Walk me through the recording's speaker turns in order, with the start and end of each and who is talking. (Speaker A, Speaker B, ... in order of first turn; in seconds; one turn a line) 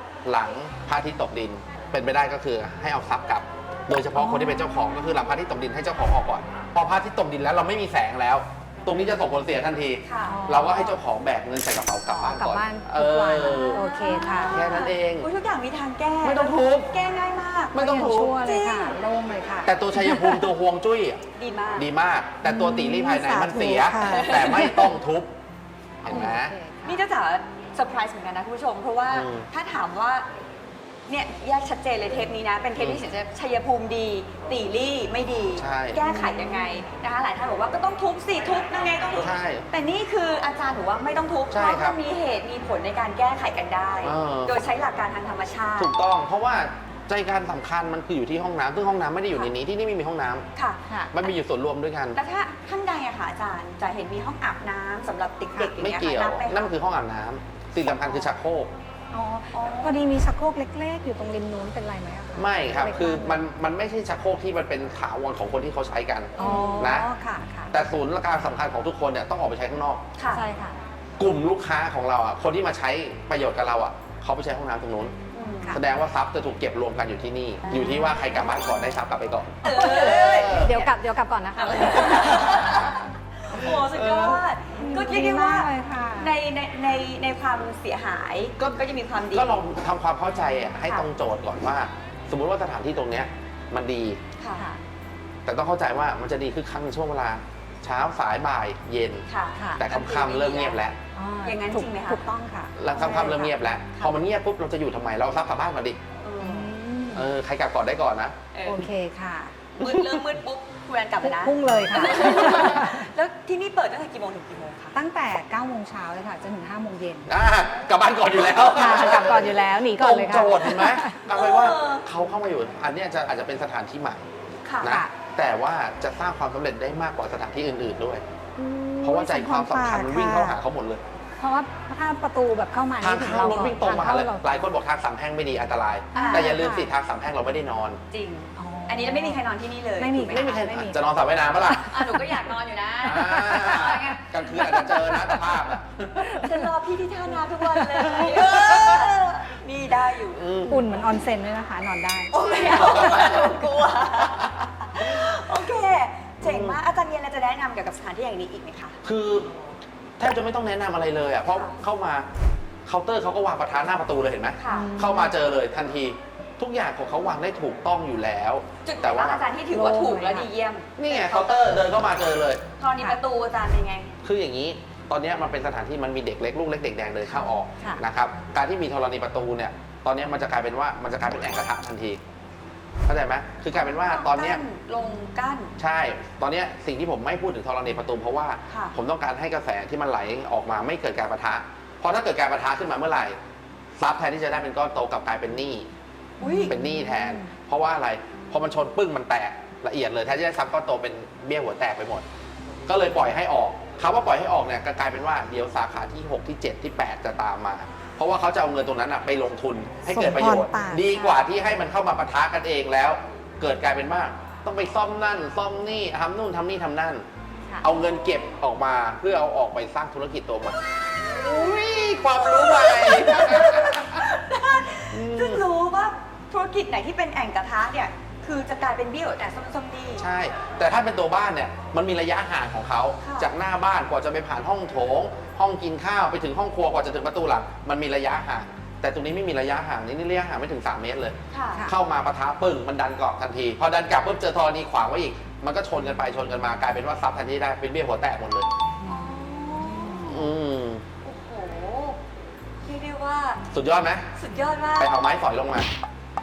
Speaker A: 0.2-13.8
Speaker B: 4.2-4.9
Speaker C: 10.0-10.4
Speaker B: 10.2-11.0
Speaker B: 12.1-14.6
Speaker C: 13.9-18.9
Speaker A: 14.5-15.3
Speaker A: 16.2-16.9
Speaker A: 17.7-18.4
Speaker B: 17.8-20.4
Speaker A: 19.6-21.2
Speaker C: 21.4-21.9
Speaker A: 21.8-25.4
Speaker B: 22.4-24.9
Speaker C: 24.0-24.7
Speaker A: 26.0-26.5
Speaker B: 26.1-27.0
Speaker C: 26.1-30.2
Speaker A: 29.1-29.5
Speaker C: 31.1-45.9
Speaker A: 35.6-36.0
Speaker B: 36.0-36.8
Speaker A: 39.2-39.6
Speaker A: 41.5-42.0
Speaker A: 44.0-44.5
Speaker A: 45.8-50.5
Speaker C: 50.5-50.8
Speaker A: 51.1-52.2
Speaker C: 52.1-56.7
Speaker A: 55.8-58.7
Speaker B: 59.1-63.4
Speaker C: 59.5-60.0
Speaker A: 62.4-67.1
Speaker C: 66.4-66.9
Speaker B: 66.4-67.7
Speaker A: 67.7-70.0
Speaker C: 70.2-70.4
Speaker B: 70.3-70.8
Speaker A: 71.2-75.1
Speaker C: 75.3-75.8
Speaker A: 75.7-80.8
Speaker B: 77.7-78.0
Speaker C: 79.6-80.8
Speaker B: 79.6-82.8
Speaker C: 81.6-89.6
Speaker A: 83.8-84.4
Speaker B: 84.8-86.3
Speaker A: 88.6-94.2
Speaker C: 94.4-94.7
Speaker A: 95.5-99.2
Speaker C: 99.3-100.8
Speaker A: 99.8-101.0
Speaker B: 101.1-103.5
Speaker C: 101.4-102.2
Speaker A: 102.8-106.0
Speaker C: 106.2-106.7
Speaker B: 106.4-107.3
Speaker A: 107.1-108.3
Speaker C: 108.5-108.8
Speaker B: 108.6-109.5
Speaker C: 109.8-115.0
Speaker B: 111.2-113.1
Speaker B: 115.0-117.3
Speaker A: 117.3-124.3
Speaker B: 118.8-121.2
Speaker C: 121.3-122.0
Speaker C: 124.6-125.0
Speaker A: 124.8-128.2
Speaker B: 124.8-125.1
Speaker B: 128.6-130.6
Speaker A: 129.0-131.0
Speaker B: 131.4-134.7
Speaker A: 133.0-138.0
Speaker C: 136.1-136.6
Speaker B: 136.1-136.9
Speaker C: 138.1-140.4
Speaker B: 138.6-139.4
Speaker B: 140.0-141.0
Speaker A: 140.3-141.9
Speaker B: 141.6-142.2
Speaker C: 141.8-144.3
Speaker A: 143.0-146.5
Speaker B: 144.6-145.4
Speaker C: 146.4-150.4
Speaker A: 148.1-149.1
Speaker A: 150.3-150.9
Speaker B: 150.7-153.5
Speaker C: 152.3-159.0
Speaker A: 152.8-153.5
Speaker A: 156.4-156.8
Speaker A: 159.0-159.5
Speaker A: 160.2-162.3
Speaker A: 162.8-169.4
Speaker C: 164.6-164.9
Speaker B: 164.7-165.3
Speaker C: 168.8-171.6
Speaker B: 169.7-170.5
Speaker A: 171.0-172.6
Speaker C: 172.8-174.1
Speaker A: 174.2-182.2
Speaker B: 177.3-178.0
Speaker A: 183.1-184.6
Speaker C: 183.7-185.7
Speaker A: 185.8-193.4
Speaker C: 188.7-189.0
Speaker A: 194.0-195.9
Speaker C: 196.4-196.8
Speaker B: 196.4-197.5
Speaker A: 196.7-202.2
Speaker A: 202.9-217.2
Speaker B: 210.1-211.4
Speaker A: 217.8-224.3
Speaker C: 222.4-230.2
Speaker A: 225.1-225.6
Speaker A: 230.2-248.7
Speaker C: 233.2-233.5
Speaker C: 241.5-241.9
Speaker B: 249.0-250.3
Speaker C: 249.1-250.5
Speaker A: 250.3-251.0
Speaker C: 251.2-252.2
Speaker C: 252.8-253.6
Speaker A: 253.7-254.3
Speaker C: 254.3-255.1
Speaker A: 255.0-255.9